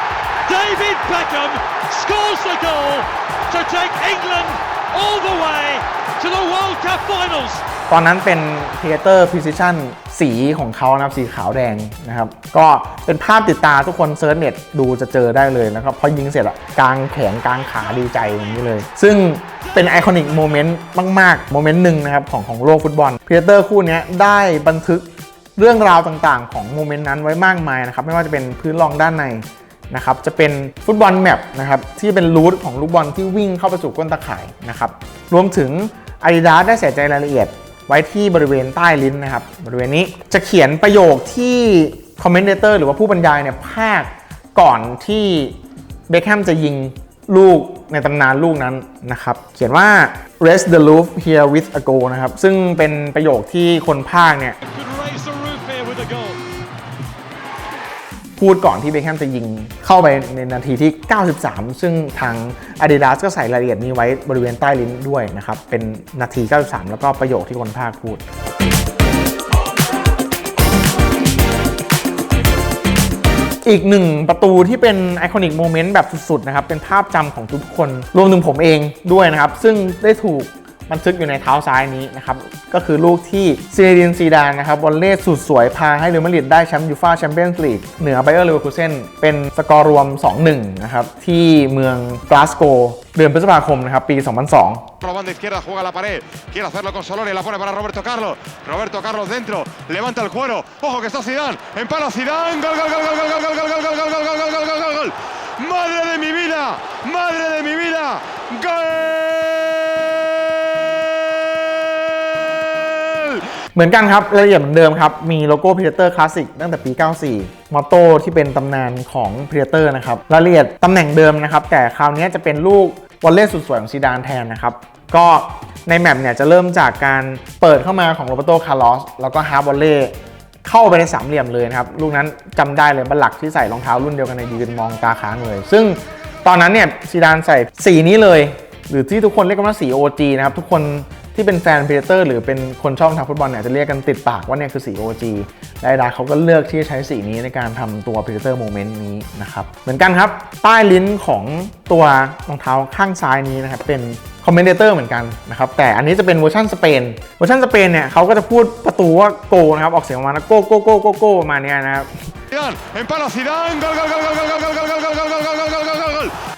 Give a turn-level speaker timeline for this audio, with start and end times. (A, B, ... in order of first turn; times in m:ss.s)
0:00.4-0:07.6 A
0:07.9-0:45.6 B
0:46.1-0:54.6 B
0:54.6-0:56.4 A
0:58.4-1:08.2 B
1:13.6-1:34.9 B
1:35.0-1:49.3 C
1:53.1-1:53.4 C
1:53.7-2:42.3 B
2:42.5-2:46.3 C